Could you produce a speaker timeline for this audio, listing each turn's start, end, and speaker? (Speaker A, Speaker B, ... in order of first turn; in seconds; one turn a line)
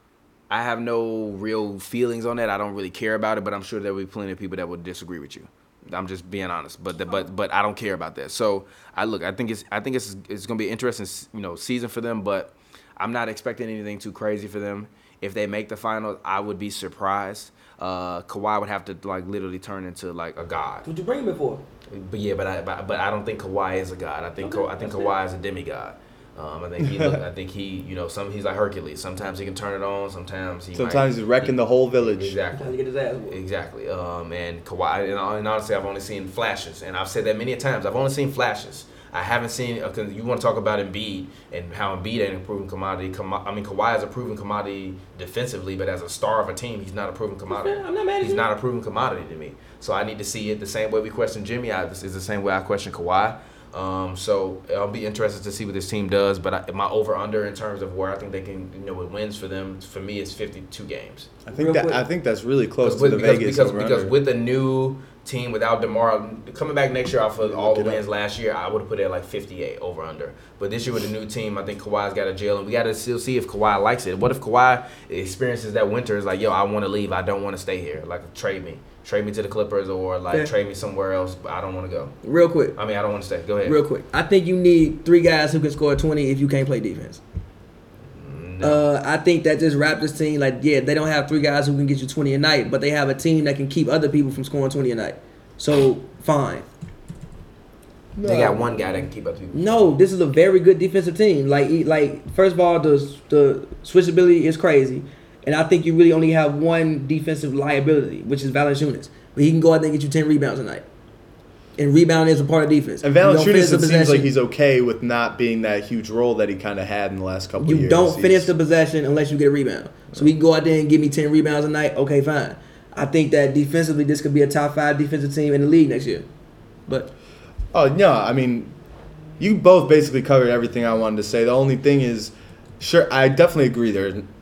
Speaker A: 0.5-20.9
Speaker B: 20.8-21.6
Speaker A: 21.9-32.7
Speaker B: 24.4-25.1
Speaker C: 26.8-27.2
Speaker C: 30.7-32.4
Speaker B: 32.5-33.4
Speaker A: 33.3-61.3
Speaker B: 47.5-48.5
Speaker C: 61.5-64.1
Speaker B: 61.5-62.0
Speaker A: 62.8-82.1
Speaker C: 67.4-68.0
Speaker B: 82.2-82.8
Speaker A: 82.8-83.8
Speaker B: 83.6-87.2
Speaker A: 88.1-88.8
Speaker B: 88.6-96.7
Speaker C: 98.1-98.9
Speaker A: 98.2-99.9
Speaker B: 99.5-110.8
Speaker B: 111.8-114.3
Speaker C: 113.0-118.5
Speaker B: 117.6-126.2
Speaker B: 126.9-127.1
Speaker C: 127.7-128.7
Speaker C: 129.4-134.3